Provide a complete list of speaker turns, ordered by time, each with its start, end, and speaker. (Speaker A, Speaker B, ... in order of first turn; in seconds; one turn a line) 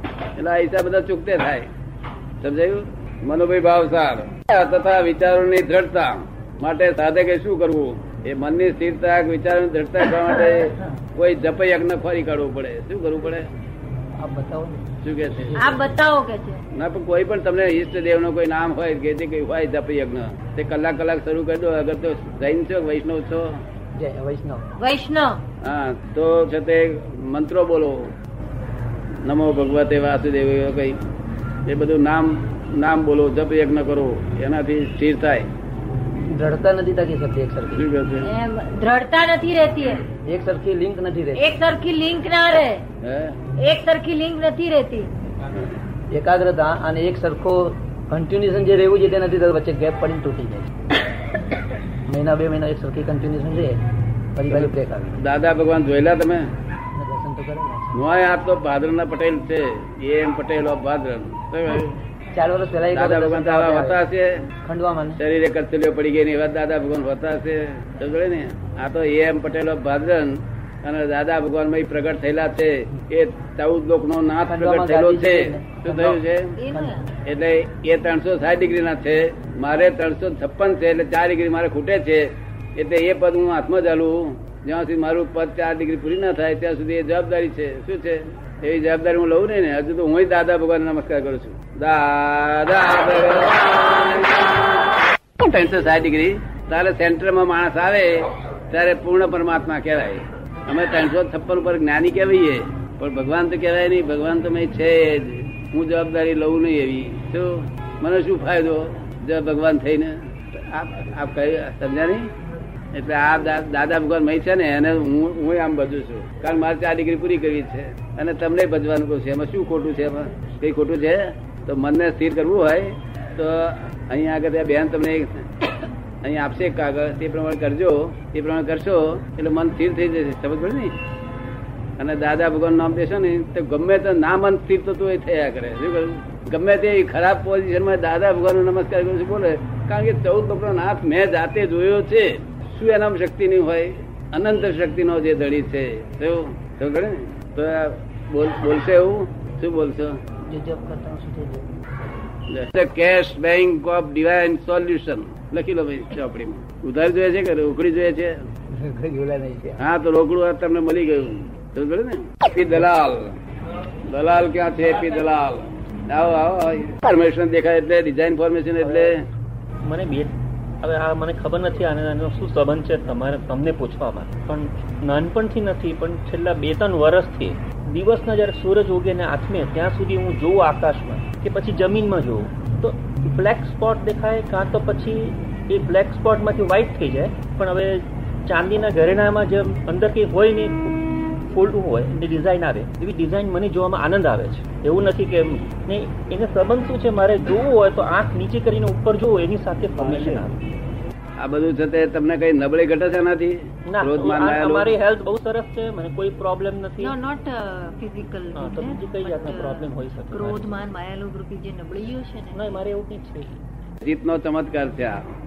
Speaker A: 0.3-1.7
Speaker A: 2.4-13.5
Speaker B: 14.2-15.8
Speaker A: 15.0-15.8
Speaker C: 15.6-16.6
Speaker A: 16.7-23.5
Speaker B: 24.0-24.7
Speaker C: 24.8-25.4
Speaker A: 25.6-28.1
Speaker A: 29.2-31.0
Speaker A: 31.7-35.5
Speaker B: 36.3-37.9
Speaker A: 37.7-38.3
Speaker C: 38.2-40.0
Speaker B: 40.2-41.5
Speaker C: 41.4-42.8
Speaker A: 43.0-43.4
Speaker C: 43.6-45.1
Speaker B: 46.1-50.7
Speaker B: 52.1-53.8
Speaker B: 54.3-55.2
Speaker A: 54.5-56.5
Speaker B: 56.9-58.0
Speaker A: 57.9-62.0
Speaker B: 62.3-64.0
Speaker A: 62.9-64.5
Speaker B: 64.6-65.2
Speaker A: 65.2-76.6
Speaker B: 74.5-77.0
Speaker C: 76.6-77.1
Speaker A: 77.2-112.3
Speaker A: 112.9-125.5
Speaker A: 126.2-130.9
Speaker A: 132.0-150.2
Speaker B: 150.5-151.7
Speaker A: 152.5-158.3
Speaker B: 158.7-159.8
Speaker A: 159.8-163.4
Speaker A: 164.1-169.2
Speaker D: 168.8-169.1
Speaker D: 169.8-200.6
Speaker A: 200.0-200.4
Speaker A: 201.4-204.9
Speaker D: 203.9-207.1
Speaker C: 207.0-212.8
Speaker D: 208.5-210.8
Speaker D: 212.5-213.6
Speaker A: 214.0-215.2